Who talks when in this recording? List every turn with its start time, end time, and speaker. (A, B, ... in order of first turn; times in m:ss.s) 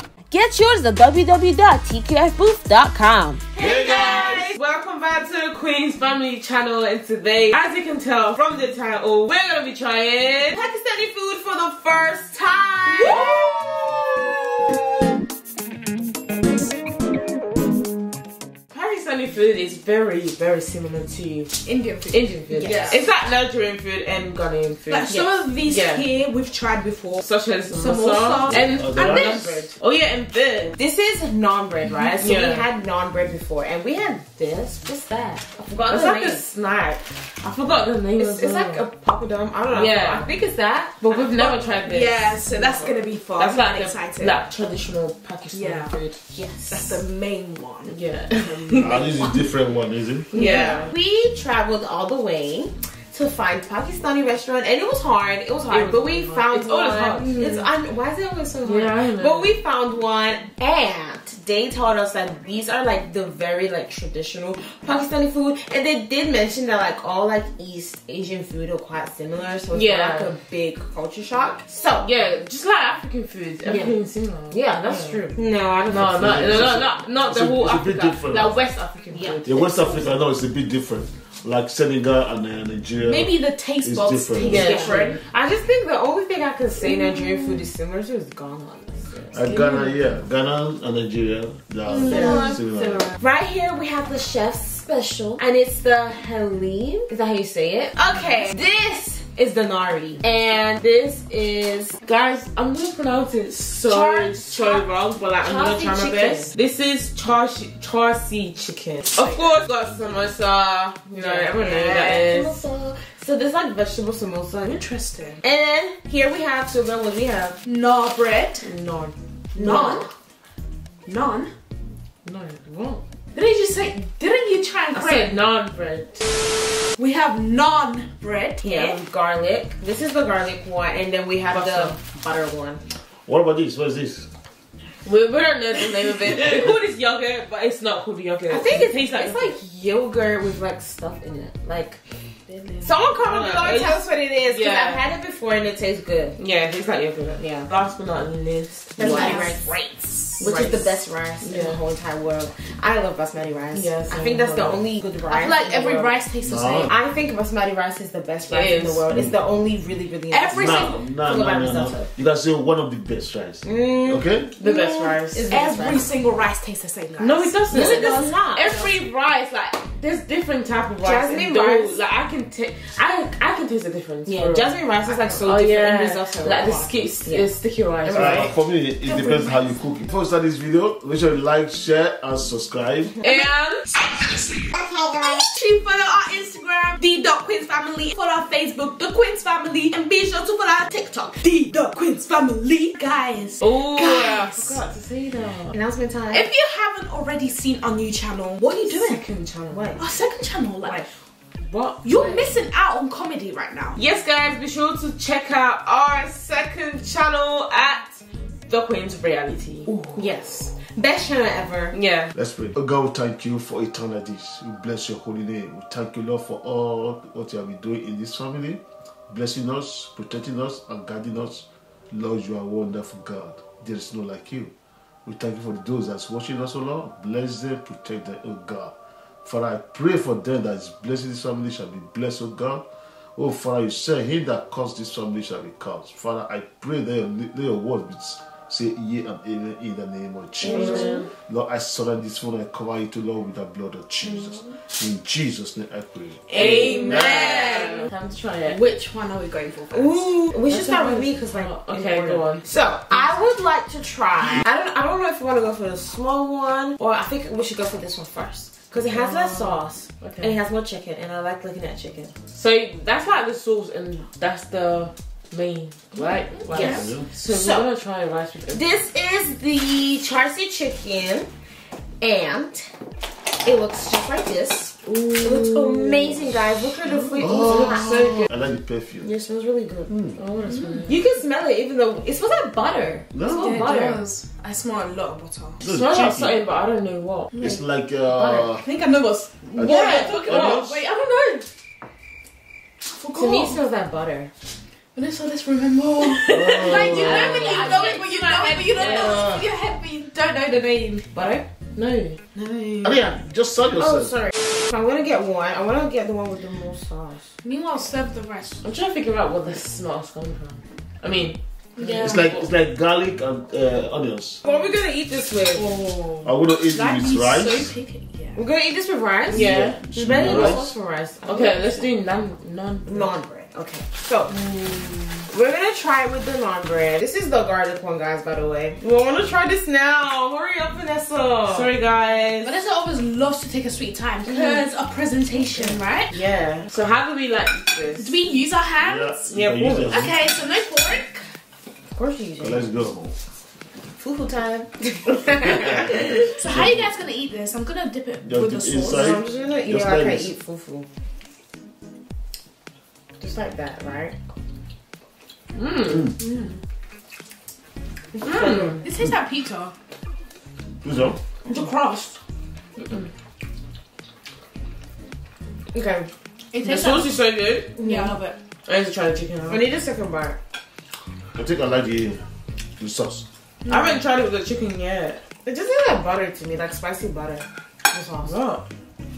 0:00.3-0:04.6 A
0:03.6-0:04.4 B
0:03.7-0:10.6 C
0:10.5-0:13.4 A
0:12.9-0:13.9 D
0:13.0-0:13.4 C
0:18.7-0:21.6 C
0:21.6-0:23.0 D
0:22.1-0:26.0 C
0:22.5-0:23.0 A
0:24.9-0:29.7 D
0:27.2-0:30.8 C
0:28.5-0:29.4 B
0:30.8-0:36.4 A
0:32.2-0:32.7 C
0:35.9-0:38.9 C
0:38.2-0:41.6 A
0:39.7-0:40.3 C
0:41.0-0:46.2 C
0:41.8-0:44.4 D
0:45.5-0:45.9 D
0:46.3-0:47.0 A
0:46.7-0:49.4 D
0:47.9-0:49.0 C
0:48.8-0:50.3 B
0:50.3-0:51.0 C
0:50.3-1:12.1 A
0:55.7-0:57.7 C
0:58.6-0:59.5 C
1:09.7-1:10.3 C
1:12.0-1:15.4 C
1:13.6-1:14.0 A
1:14.5-1:16.7 A
1:15.9-1:19.5 C
1:16.0-1:18.6 B
1:19.1-1:20.2 A
1:19.4-1:24.8 B
1:23.0-1:25.2 D
1:24.4-1:25.2 C
1:24.4-1:29.9 A
1:29.3-1:33.1 B
1:31.9-1:42.0 A
1:32.1-1:32.4 C
1:42.0-1:52.6 C
1:43.8-1:46.5 A
1:49.1-1:49.4 D
1:51.2-1:54.8 A
1:54.6-1:55.4 D
1:55.4-1:57.6 A
1:57.6-1:58.7 D
1:58.6-2:00.0 C
1:59.6-2:00.1 A
1:59.6-2:00.1 D
2:01.1-2:01.5 D
2:02.2-2:03.0 C
2:03.3-2:05.4 D
2:04.9-2:06.2 C
2:07.0-2:09.0 D
2:08.6-2:12.8 A
2:11.5-2:12.0 C
2:13.3-2:14.3 B
2:15.0-2:19.6 C
2:18.5-2:22.0 A
2:22.8-2:26.4 A
2:23.0-2:25.1 C
2:26.4-2:29.5 C
2:27.4-2:27.7 A
2:29.0-2:29.7 A
2:29.0-2:30.5 D
2:30.4-2:36.2 A
2:30.4-2:31.8 C
2:33.7-2:34.8 C
2:35.3-2:37.0 D
2:36.4-2:36.9 B
2:36.9-2:42.1 A
2:38.5-2:39.1 C
2:39.1-2:39.4 B
2:40.3-2:41.0 D
2:40.5-2:44.5 B
2:43.6-2:46.1 A
2:44.6-2:45.5 C
2:45.5-2:48.3 D
2:47.2-2:58.5 C
2:47.7-2:48.9 A
2:51.0-2:52.0 A
2:54.3-2:57.5 A
2:58.0-2:58.5 A
2:58.1-3:03.1 B
2:59.0-2:59.7 D
3:03.2-3:03.9 C
3:04.0-3:14.8 D
3:13.6-3:15.8 C
3:15.7-3:16.5 A
3:16.3-3:19.2 D
3:18.8-3:20.0 C
3:19.7-3:20.0 A
3:20.0-3:21.1 D
3:21.6-3:22.5 C
3:22.0-3:24.0 D
3:24.0-3:30.2 C
3:30.1-3:32.0 A
3:31.9-3:32.3 C
3:32.3-3:44.7 B
3:45.2-3:48.9 B
3:49.4-3:52.8 B
3:53.4-4:07.8 B
4:00.6-4:01.2 A
4:00.6-4:01.3 C
4:06.5-4:08.1 D
4:06.5-4:08.8 C
4:08.6-4:10.4 D
4:09.9-4:22.3 A
4:10.7-4:12.7 C
4:19.0-4:20.6 C
4:22.5-4:28.8 C
4:26.7-4:27.9 A
4:26.7-4:27.0 D
4:26.8-4:27.3 B
4:28.7-4:31.5 A
4:32.2-4:32.9 A
4:33.6-4:38.4 A
4:35.3-4:35.7 C
4:37.4-4:38.5 C
4:37.4-4:39.3 B
4:39.2-4:40.1 A
4:40.1-4:40.4 B
4:40.4-4:41.2 C
4:40.6-4:41.1 D
4:41.1-4:44.2 A
4:43.3-4:43.9 B
4:43.4-4:45.8 D
4:45.8-4:46.6 B
4:45.8-4:47.6 C
4:47.6-4:48.8 B
4:48.4-4:48.7 A
4:48.8-4:51.7 D
4:49.8-4:51.0 B
4:49.8-4:50.7 A
4:49.9-4:50.8 C
4:53.1-4:53.8 D
4:53.3-4:54.5 A
4:55.2-5:01.3 D
4:56.5-4:59.6 A
4:56.5-4:57.7 B
4:57.6-4:58.0 C
4:58.9-4:59.5 C
5:01.3-5:01.7 A
5:02.0-5:02.4 C
5:02.6-5:03.2 A
5:03.0-5:04.4 B
5:04.0-5:07.5 A
5:07.6-5:08.8 D
5:08.8-5:12.7 C
5:12.0-5:12.5 D
5:12.0-5:14.6 B
5:14.6-5:15.9 A
5:15.7-5:18.6 D
5:16.4-5:17.9 B
5:18.6-5:22.1 A
5:19.5-5:20.8 C
5:19.5-5:20.9 B
5:21.5-5:23.4 C
5:23.0-5:24.6 A
5:25.4-5:31.9 A
5:31.7-5:32.7 C
5:32.6-5:36.4 D
5:34.5-5:34.8 A
5:36.3-5:36.9 A
5:36.8-5:38.4 C
5:38.2-5:39.5 D
5:39.0-5:40.4 B
5:39.5-5:40.3 C
5:40.1-5:41.4 D
5:42.2-5:42.8 A
5:42.6-5:43.4 B
5:44.2-5:46.2 A
5:45.5-5:47.1 B
5:46.1-5:49.4 D
5:48.4-5:50.5 B
5:49.0-5:51.1 A
5:53.4-5:54.4 A
5:55.8-5:56.3 C
5:58.3-5:59.0 A
5:58.4-5:59.0 C
5:58.6-5:59.9 D
6:01.0-6:01.4 B
6:01.7-6:02.4 D
6:03.0-6:03.3 C
6:05.9-6:06.3 A
6:06.7-6:07.4 D
6:06.8-6:07.9 C
6:08.0-6:08.6 D
6:08.0-6:08.3 A
6:08.9-6:09.8 C
6:09.7-6:10.6 A
6:11.6-6:12.4 B
6:13.0-6:13.4 B
6:13.8-6:14.2 D
6:13.9-6:15.4 C
6:15.6-6:18.6 A
6:18.4-6:18.8 C